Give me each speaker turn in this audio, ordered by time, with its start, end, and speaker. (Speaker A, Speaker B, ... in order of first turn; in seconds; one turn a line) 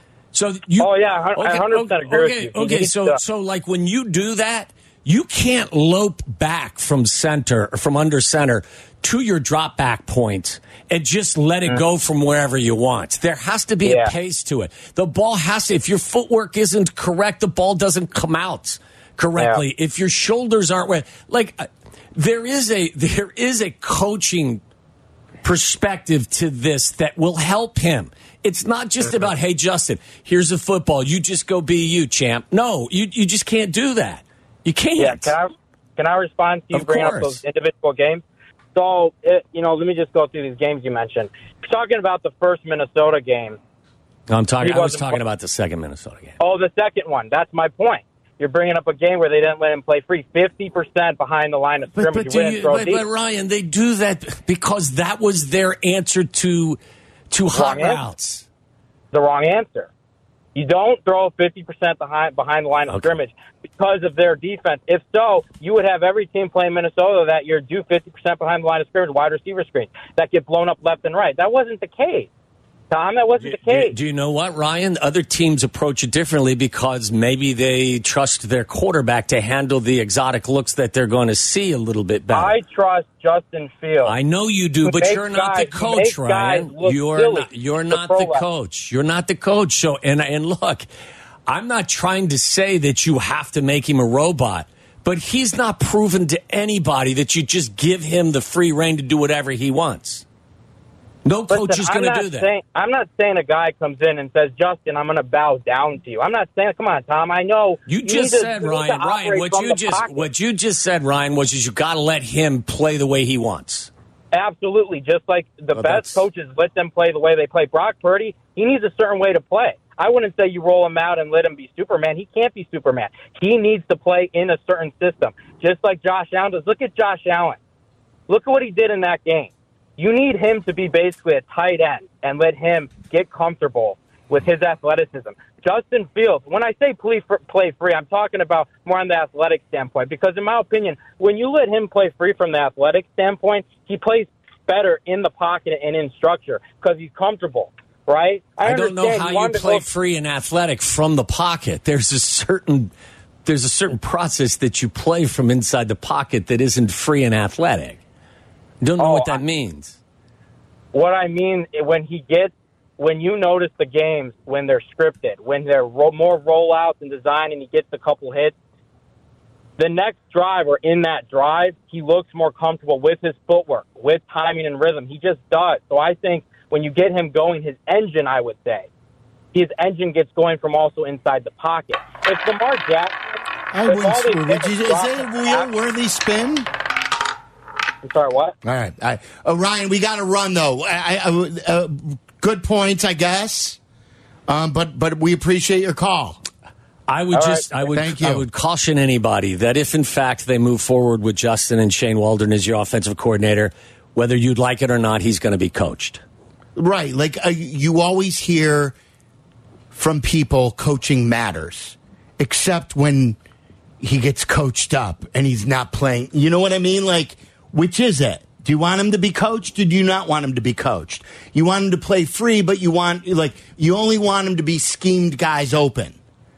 Speaker A: 0.3-24.6
Speaker B: 0.8-3.2
Speaker B: 13.8-14.1
Speaker B: 19.4-19.6
Speaker A: 25.4-35.4
Speaker B: 35.0-38.2
Speaker A: 36.7-37.4
Speaker B: 38.7-43.6
Speaker A: 44.3-46.4
Speaker B: 44.6-45.2
Speaker B: 46.4-53.0
Speaker A: 52.0-56.8
Speaker A: 57.3-58.5
Speaker B: 57.5-58.0
Speaker B: 59.1-59.9
Speaker B: 60.5-72.3
Speaker B: 72.9-73.9
Speaker A: 73.4-82.5
Speaker B: 82.3-84.1
Speaker A: 84.0-90.9
Speaker B: 84.8-88.4
Speaker A: 91.5-100.2
Speaker A: 101.2-102.5
Speaker B: 101.5-110.2
Speaker A: 107.9-113.9
Speaker B: 114.3-127.6
Speaker C: 115.8-116.2
Speaker B: 128.3-149.8
Speaker A: 148.6-152.9
Speaker A: 153.4-158.0
Speaker A: 158.8-160.0
Speaker B: 159.0-159.4
Speaker B: 160.9-168.5
Speaker B: 169.8-178.9
Speaker B: 179.5-185.7
Speaker C: 183.7-186.7
Speaker B: 188.0-188.6
Speaker C: 188.6-193.8
Speaker C: 194.5-196.4
Speaker A: 197.1-206.2
Speaker B: 197.3-197.6
Speaker C: 197.9-198.4
Speaker C: 206.8-208.9
Speaker C: 209.9-213.4
Speaker C: 214.0-226.2